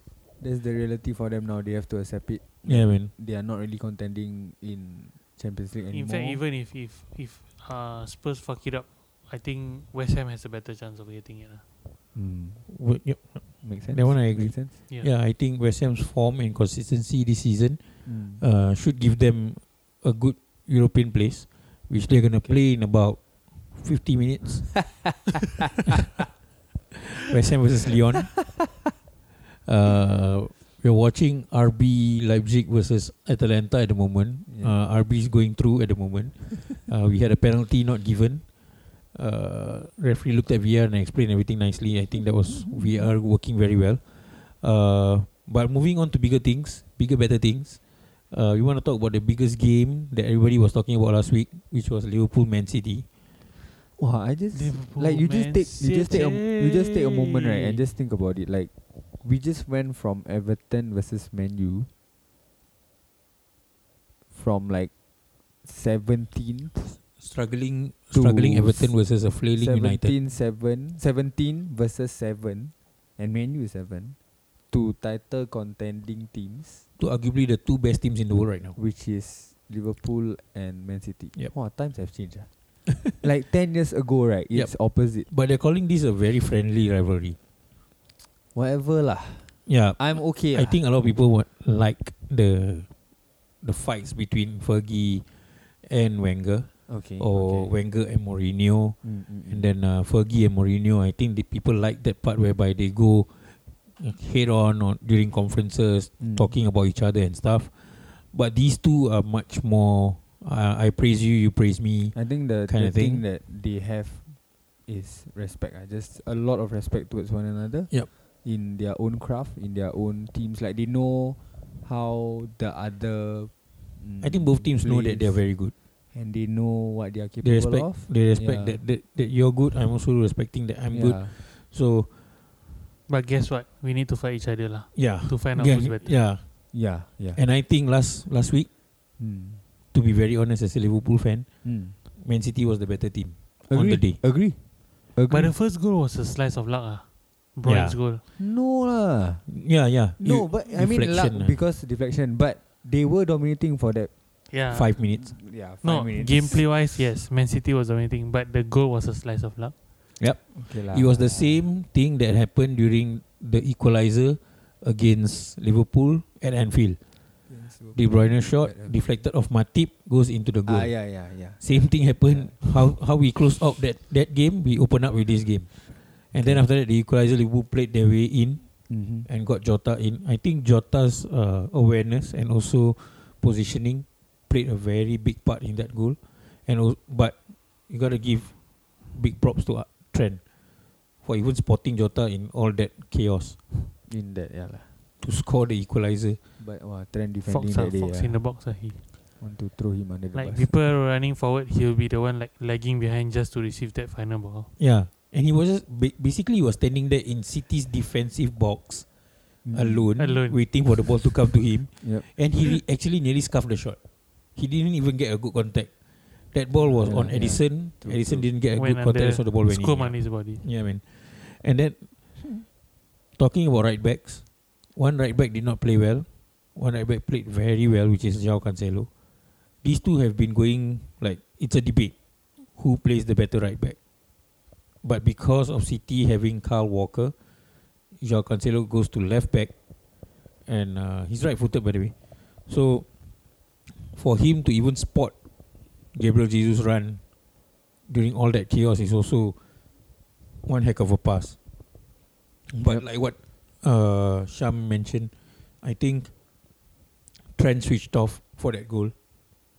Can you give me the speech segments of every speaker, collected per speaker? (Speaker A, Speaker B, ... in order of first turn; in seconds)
Speaker A: 0.4-6.4, 12.1-12.7, 13.6-14.8, 18.0-18.4, 34.5-34.7, 42.5-43.1, 54.0-61.9, 64.3-64.9, 65.6-67.0, 68.1-74.2, 74.7-76.8, 78.8-82.5, 83.0-85.3, 88.5-90.8, 96.9-97.7, 99.0-99.7, 106.2-106.5, 112.1-114.3, 114.9-117.9, 118.4-125.4, 126.1-128.8, 130.9-131.3, 136.7-137.4, 139.2-139.6, 141.6-141.9, 143.6-144.6, 145.1-145.5, 148.3-149.5, 150.2-154.1, 155.2-156.7, 160.5-161.6, 167.5-168.9, 170.7-173.0, 176.3-176.7, 178.9-179.3, 194.1-194.9, 196.6-198.4, 199.4-200.7, 209.6-210.1, 212.0-212.3, 216.8-218.5, 252.8-253.0
Speaker B: 2.6-3.1, 12.7-17.8, 18.4-25.1, 27.1-28.5, 29.6-38.5, 39.1-47.8, 48.3-53.0, 67.2-70.1, 77.0-78.8, 85.3-87.4, 89.7-92.9, 93.6-95.2, 95.8-112.2, 112.7-113.2, 124.2-125.7, 127.4-132.1, 134.9-136.4, 137.3-138.7, 139.9-141.5, 142.2-144.2, 147.6-147.9, 149.5-151.6, 154.7-155.3, 160.2-167.0, 167.9-170.9, 171.6-175.8, 176.3-178.6, 179.2-187.4, 187.9-188.5, 189.1-190.4, 191.2-193.6, 195.2-196.4, 204.8-209.1, 209.7-214.0, 214.5-215.9, 216.5-222.1, 223.4-224.4, 224.9-229.1, 229.8-232.1, 232.7-234.0, 235.0-237.3, 238.2-239.7, 240.7-242.1, 242.7-243.1, 244.0-245.3, 246.1-247.2, 248.1-249.6, 250.7-251.6, 252.7-256.3, 257.6-259.1
Speaker C: 5.9-11.6, 54.5-57.8, 133.1-136.1, 145.3-147.0, 147.6-148.2, 154.5-154.9, 155.8-159.7, 197.4-199.0, 200.3-204.7, 210.2-210.6, 218.8-220.6